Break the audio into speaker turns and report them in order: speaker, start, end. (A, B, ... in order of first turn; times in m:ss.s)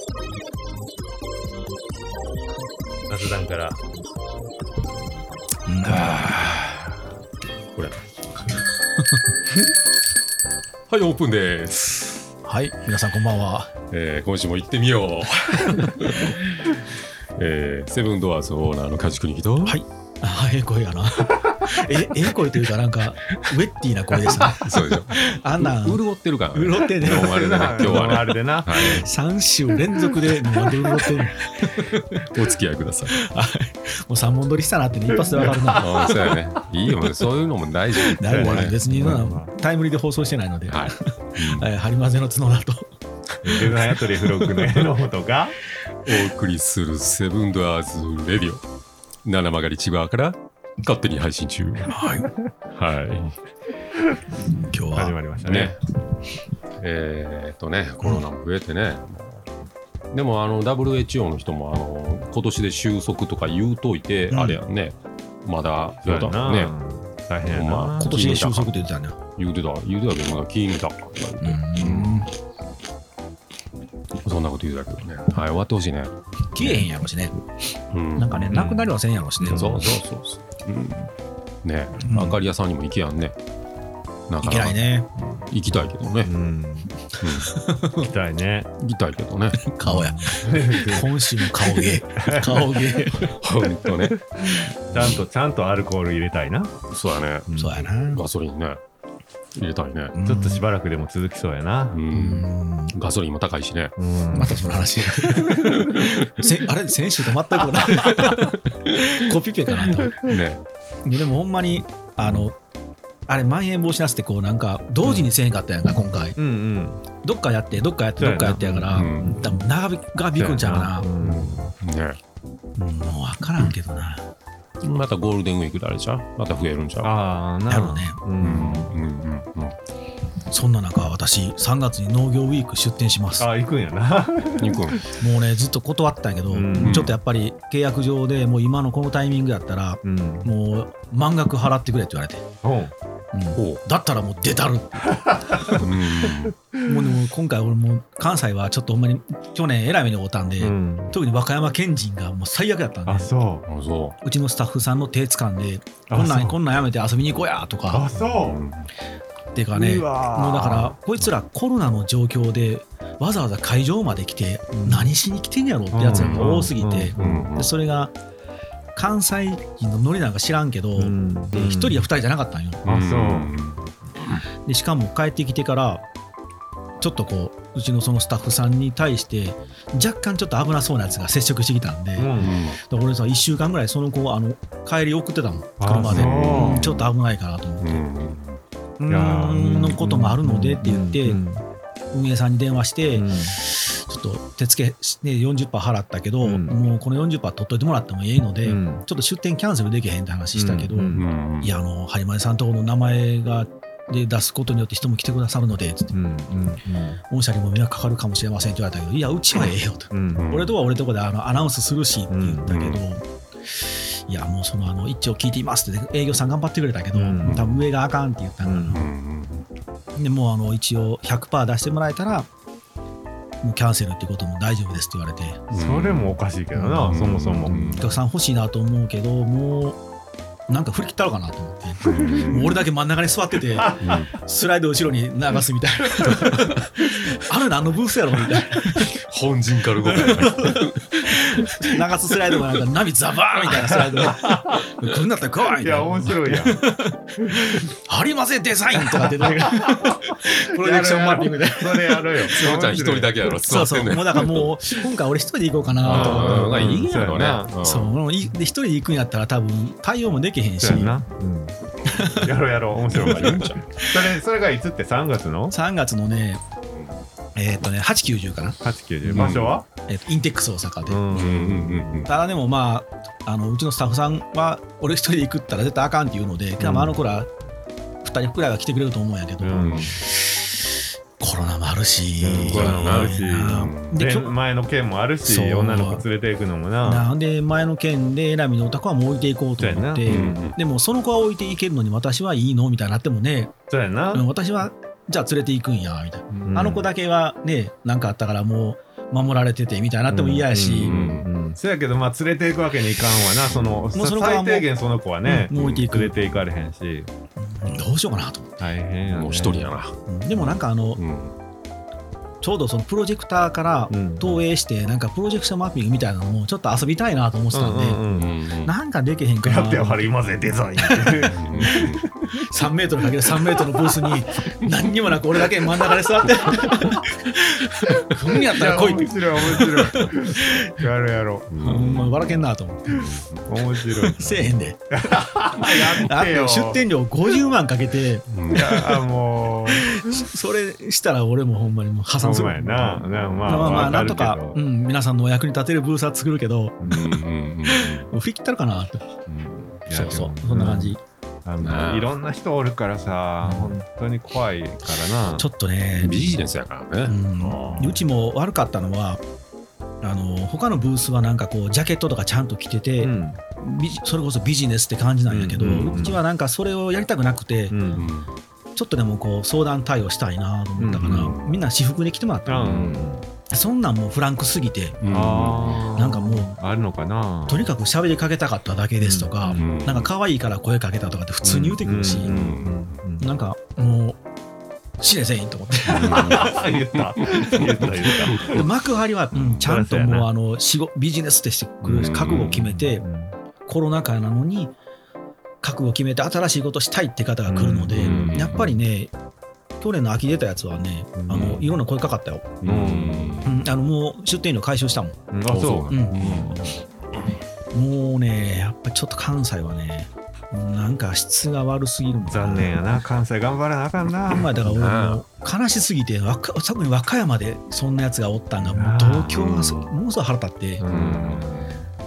0:03.1-0:03.8 A
0:05.7-0:06.6 B
0:07.7-0:08.0 C
0:09.0-0:09.2 B
0:10.9-0:12.2 C
0:12.4-0:13.7 B
0:13.9-0:16.6 C
0:15.5-0:16.3 B
0:17.4-0:19.8 C
0:19.6-0:28.0 B
0:24.5-0:29.1 C
0:27.1-0:29.1 A
0:28.7-0:32.3 B
0:32.2-0:33.1 C
0:33.1-0:35.9 B
0:35.3-0:36.4 A
0:35.7-0:39.2 C
0:38.2-0:42.9 B
0:38.3-0:39.5 A
0:40.7-0:41.7 C
0:43.4-0:44.7 B
0:43.4-0:45.6 A
0:46.1-0:48.6 C
0:49.2-0:51.9 C
0:51.9-0:52.3 B
0:52.7-0:53.3 C
0:54.0-0:55.8 A
0:54.4-0:55.2 B
0:55.4-0:55.8 C
0:56.8-0:59.5 C
1:00.1-1:06.7 C
1:04.3-1:04.6 B
1:06.0-1:08.2 A
1:07.5-1:12.2 C
1:08.0-1:09.2 B
1:11.4-1:12.3 B
1:14.2-1:16.9 C
1:16.5-1:17.4 B
1:17.9-1:18.6 C
1:18.2-1:19.9 B
1:18.5-1:19.8 A
1:19.4-1:21.1 C
1:21.6-1:23.4 C
1:22.0-1:22.4 B
1:24.3-1:24.8 C
1:24.4-1:25.1 B
1:25.5-1:26.3 C
1:26.3-1:26.9 A
1:27.1-1:28.1 B
1:27.2-1:27.5 C
1:28.0-1:28.7 A
1:28.8-1:29.6 C
1:29.6-1:33.4 B
1:29.9-1:32.8 A
1:33.2-1:34.2 C
1:33.9-1:36.8 A
1:36.9-1:37.5 C
1:37.5-1:37.9 A
1:37.6-1:38.2 B
1:38.1-1:38.8 C
1:39.6-1:40.1 C
1:40.1-1:40.6 B
1:40.3-1:42.0 A
1:41.9-1:44.0 C
1:42.1-1:42.9 B
1:44.0-1:44.8 A
1:44.3-1:50.2 B
1:50.0-1:50.6 C
1:51.0-1:52.6 B
1:52.2-1:52.5 C
1:53.3-1:56.4 B
1:55.0-1:55.3 A
1:56.4-1:57.0 A
1:57.2-2:01.1 B
1:58.2-1:59.6 A
1:58.9-1:59.4 C
2:00.4-2:01.7 A
2:01.2-2:02.2 C
2:02.8-2:04.2 B
2:04.8-2:07.1 C
2:07.0-2:08.9 A
2:07.7-2:08.2 B
2:08.4-2:09.8 C
2:10.5-2:13.5 B
2:13.4-2:15.1 A
2:14.6-2:15.0 C
2:15.1-2:22.4 B
2:16.5-2:17.1 A
2:16.8-2:17.2 C
2:20.0-2:20.5 A
2:22.6-2:22.9 A
2:23.3-2:25.8 B
2:23.6-2:23.8 C
2:25.1-2:26.9 A
2:25.8-2:26.6 C
2:26.8-2:33.3 B
2:30.6-2:31.1 A
2:33.1-2:33.7 A
2:33.7-2:34.2 C
2:34.2-2:38.1 B
2:36.1-2:36.6 A
2:37.9-2:38.6 A
2:38.4-2:38.9 C
2:39.6-2:48.1 B
2:39.7-2:41.0 A
2:44.8-2:45.1 A
2:45.9-2:47.5 A
2:47.2-2:47.7 C
2:49.0-2:52.8 B
2:51.0-2:52.1 A
2:52.8-2:54.4 C
2:52.9-2:53.5 A
2:54.6-2:56.0 B
2:57.0-3:08.0 B
3:02.2-3:02.6 A
3:02.4-3:02.8 C
3:05.8-3:06.9 A
3:06.0-3:07.0 C
3:07.8-3:08.6 C
3:09.0-3:11.4 B
3:09.1-3:11.6 A
3:12.1-3:26.2 B
3:13.2-3:13.6 A
3:16.4-3:16.8 A
3:18.6-3:19.0 A
3:20.6-3:21.3 A
3:21.1-3:21.7 C
3:26.1-3:27.2 A
3:27.3-3:39.1 B
3:30.1-3:30.5 A
3:30.4-3:30.7 C
3:32.3-3:32.7 A
3:32.7-3:33.0 C
3:37.2-3:37.6 A
3:37.4-3:37.8 C
3:38.6-3:39.0 A
3:38.9-3:39.7 C
3:40.2-3:42.5 B
3:43.6-3:45.7 B
3:45.7-3:48.0 A
3:45.7-3:46.4 C
3:46.7-3:50.0 B
3:47.1-3:48.2 C
3:50.7-3:59.2 B
3:52.0-3:52.7 C
3:52.1-3:52.6 A
3:53.8-3:54.2 A
3:54.0-3:54.3 C
3:59.0-4:02.0 C
4:00.0-4:12.4 B
4:03.7-4:04.8 A
4:05.8-4:06.8 A
4:07.4-4:07.8 A
4:09.0-4:13.4 A
4:12.5-4:15.0 C
4:13.6-4:16.8 B
4:16.0-4:17.7 A
4:16.0-4:18.2 C
4:17.8-4:21.2 B
4:20.8-4:21.8 A
4:22.0-4:22.5 B
4:22.4-4:25.7 A
4:23.1-4:23.8 C
4:23.1-4:24.4 B
4:25.7-4:26.6 B
4:27.6-4:28.8 B
4:28.8-4:29.9 A
4:29.2-4:29.8 C
4:29.3-4:29.6 B
4:30.1-4:31.5 B
4:31.1-4:32.3 A
4:31.3-4:32.3 C
4:32.3-4:37.5 B
4:36.8-4:37.2 A
4:38.2-4:40.8 B
4:39.6-4:40.1 A
4:39.8-4:40.2 C
4:41.4-4:44.6 B
4:42.4-4:47.3 A
4:42.6-4:44.2 C
4:45.4-4:46.2 B
4:47.0-4:53.7 B
4:49.8-4:50.6 A
4:50.2-4:50.8 C
4:53.9-4:54.4 A
4:54.3-5:01.1 B
4:56.5-4:57.1 A
5:00.3-5:07.3 A
5:01.0-5:01.5 C
5:03.7-5:04.0 C
5:04.2-5:04.9 B
5:05.4-5:06.4 B
5:07.6-5:08.9 B
5:08.8-5:09.9 A
5:09.3-5:11.6 C
5:10.3-5:11.2 B
5:12.6-5:18.2 B
5:14.1-5:14.6 A
5:17.7-5:18.6 A
5:18.3-5:18.9 C
5:18.8-5:20.4 B
5:19.6-5:22.7 A
5:21.0-5:31.1 B
5:21.5-5:22.2 C
5:23.5-5:24.3 A
5:25.8-5:26.1 A
5:28.2-5:32.5 A
5:31.8-5:33.3 B
5:31.9-5:32.4 C
5:33.1-5:37.0 A
5:33.2-5:33.7 C
5:34.0-5:39.2 B
5:38.5-5:38.9 C
5:38.7-5:40.4 A
5:39.8-5:49.3 B
5:42.4-5:44.8 A
5:43.4-5:44.0 C
5:47.0-5:47.3 A
5:47.1-5:48.3 C
5:49.5-5:50.0 C
5:50.1-5:55.7 A
5:50.1-5:51.2 B
5:51.8-5:52.3 C
5:53.6-5:54.0 B
5:55.6-5:56.6 B
5:56.2-5:58.2 C
5:57.2-5:59.4 B
6:00.2-6:08.0 B
6:03.2-6:03.6 A
6:05.5-6:06.4 A
6:07.9-6:08.3 A
6:08.2-6:08.5 C
6:09.0-6:13.2 B
6:11.0-6:11.5 A
6:11.2-6:11.8 C
6:12.7-6:13.5 A
6:13.7-6:15.2 B
6:15.2-6:16.0 C
6:15.3-6:17.9 A
6:16.1-6:16.7 B
6:17.7-6:22.6 B
6:19.2-6:19.9 A
6:19.7-6:20.3 C
6:21.6-6:23.5 A
6:22.4-6:23.2 C
6:23.4-6:24.4 B
6:25.2-6:26.8 B
6:26.1-6:28.8 C
6:26.1-6:28.8 A
6:28.5-6:33.2 B
6:29.5-6:29.9 C
6:29.8-6:30.5 A
6:32.0-6:32.8 C
6:32.2-6:33.6 A
6:33.9-6:35.0 B
6:35.8-6:39.3 B
6:37.7-6:38.9 A
6:38.2-6:38.9 C
6:40.0-6:42.7 B
6:41.4-6:42.0 A
6:42.8-6:43.6 A
6:42.8-6:43.8 C
6:43.6-6:45.4 B
6:45.5-6:46.1 A
6:45.7-6:47.4 C
6:46.1-6:46.9 B
6:47.9-6:53.0 B
6:52.5-6:54.7 A
6:54.5-7:01.0 B
6:54.8-6:55.4 C
6:58.8-6:59.7 A
6:59.5-7:00.1 C
7:01.0-7:01.9 A
7:01.0-7:02.0 C